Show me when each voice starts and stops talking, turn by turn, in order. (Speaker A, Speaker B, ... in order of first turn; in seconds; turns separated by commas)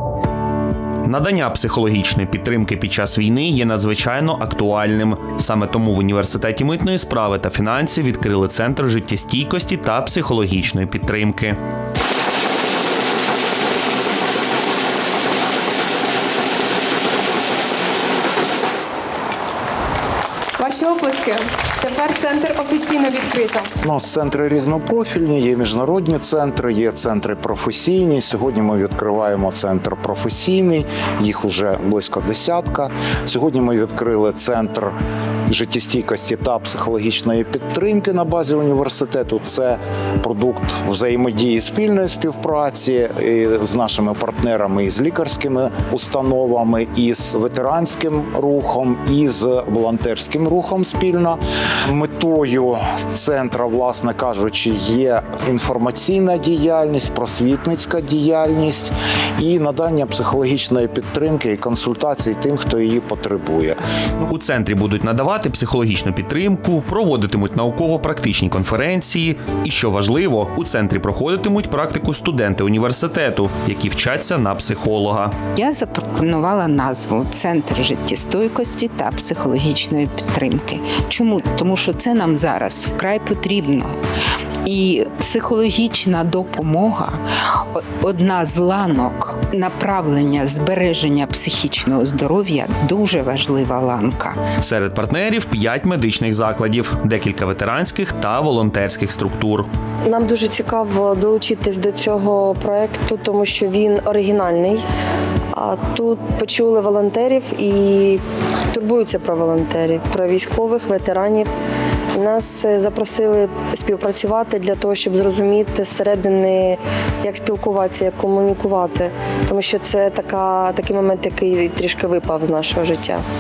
Speaker A: 1.1-11.6, Speaker B: 20.6-23.7, Speaker C: 23.8-35.0, Speaker C: 35.5-63.8, Speaker A: 64.3-75.3, Speaker D: 75.5-84.0, Speaker D: 84.6-94.4, Speaker A: 94.6-99.7, Speaker E: 100.0-104.8, Speaker E: 105.5-111.5, Speaker E: 112.1-123.2